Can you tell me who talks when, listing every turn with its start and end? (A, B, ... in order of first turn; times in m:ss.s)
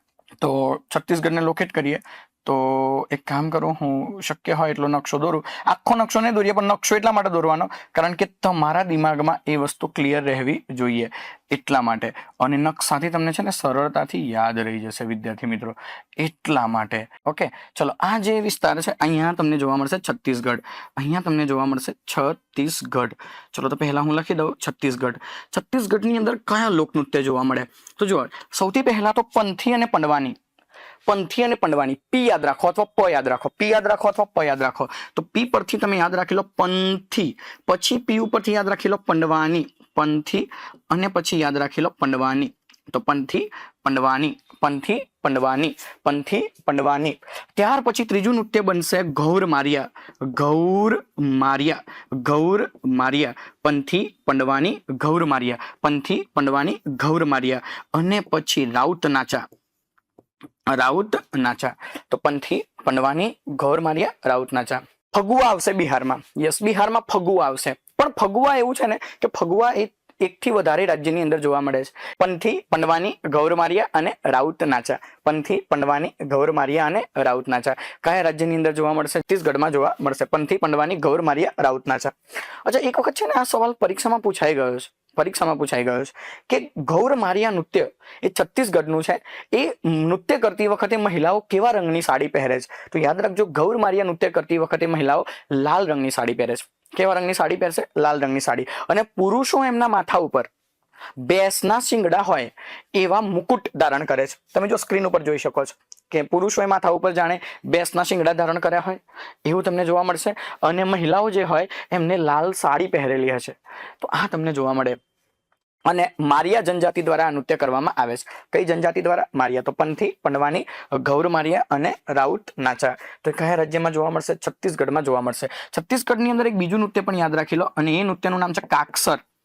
0:00.4-0:30.4 A
0:31.1-0:59.4 A
1:00.7-1:22.1 A
1:22.6-1:40.5 A
1:41.2-1:55.0 A
1:55.9-2:09.2 A